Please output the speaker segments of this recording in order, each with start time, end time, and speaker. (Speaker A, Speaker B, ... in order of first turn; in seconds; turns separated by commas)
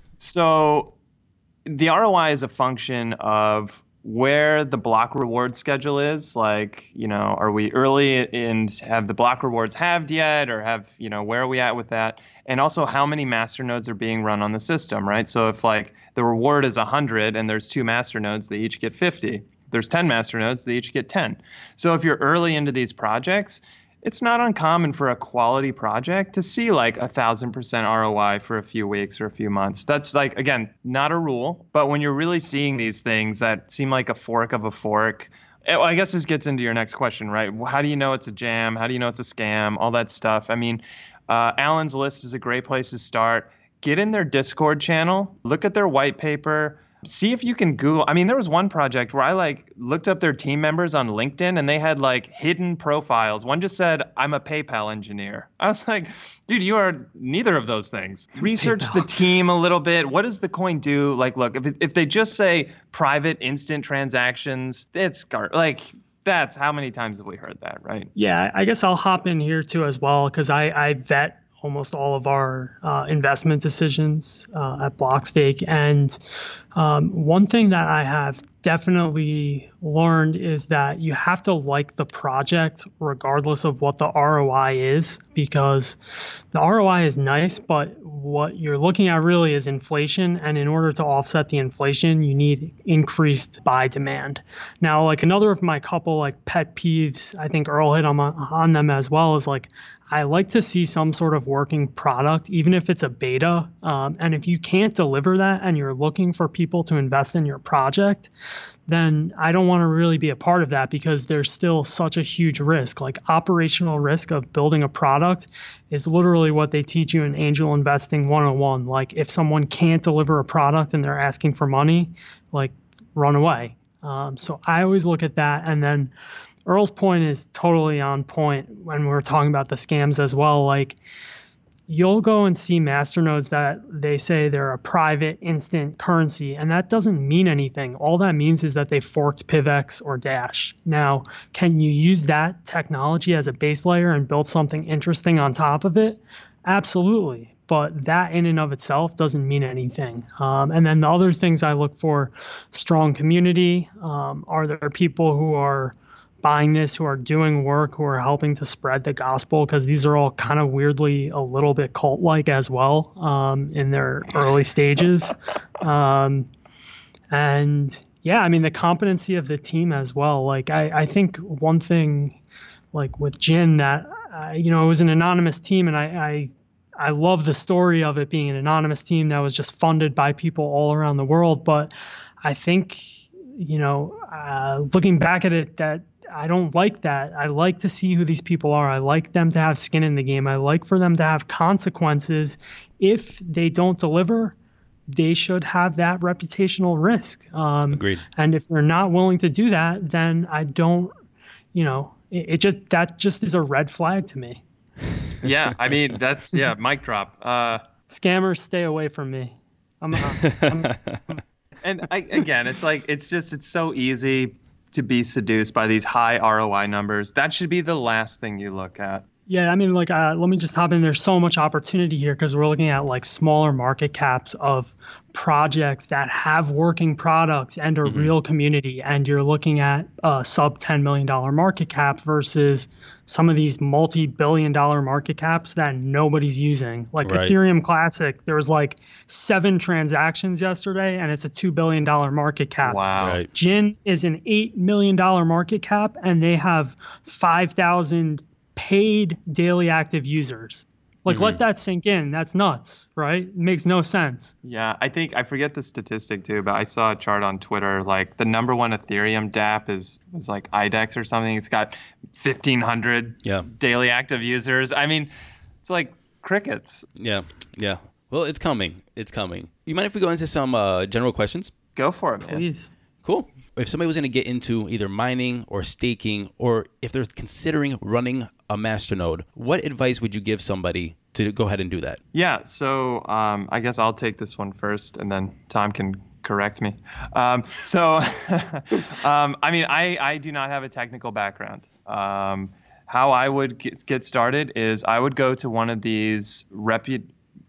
Speaker A: 0.2-0.9, Speaker A: 1.7-68.1, Speaker B: 58.6-59.0, Speaker B: 68.2-76.2, Speaker B: 76.8-86.0, Speaker B: 86.5-108.3, Speaker B: 108.9-126.1, Speaker B: 126.7-131.0, Speaker B: 131.9-166.5, Speaker B: 167.3-172.4, Speaker B: 172.9-194.5, Speaker B: 195.1-201.1, Speaker C: 197.9-198.2, Speaker B: 201.7-204.6, Speaker A: 205.4-207.8, Speaker B: 208.1-210.9, Speaker C: 210.3-211.3, Speaker A: 211.8-219.2, Speaker B: 219.5-254.5, Speaker C: 228.0-228.3, Speaker C: 237.2-237.6, Speaker A: 242.8-243.4, Speaker C: 243.2-243.5, Speaker C: 251.3-251.6, Speaker A: 254.6-265.3, Speaker A: 265.8-267.1, Speaker C: 267.2-271.7, Speaker A: 272.0-272.6, Speaker B: 272.4-272.9, Speaker C: 273.2-282.2, Speaker A: 282.3-297.3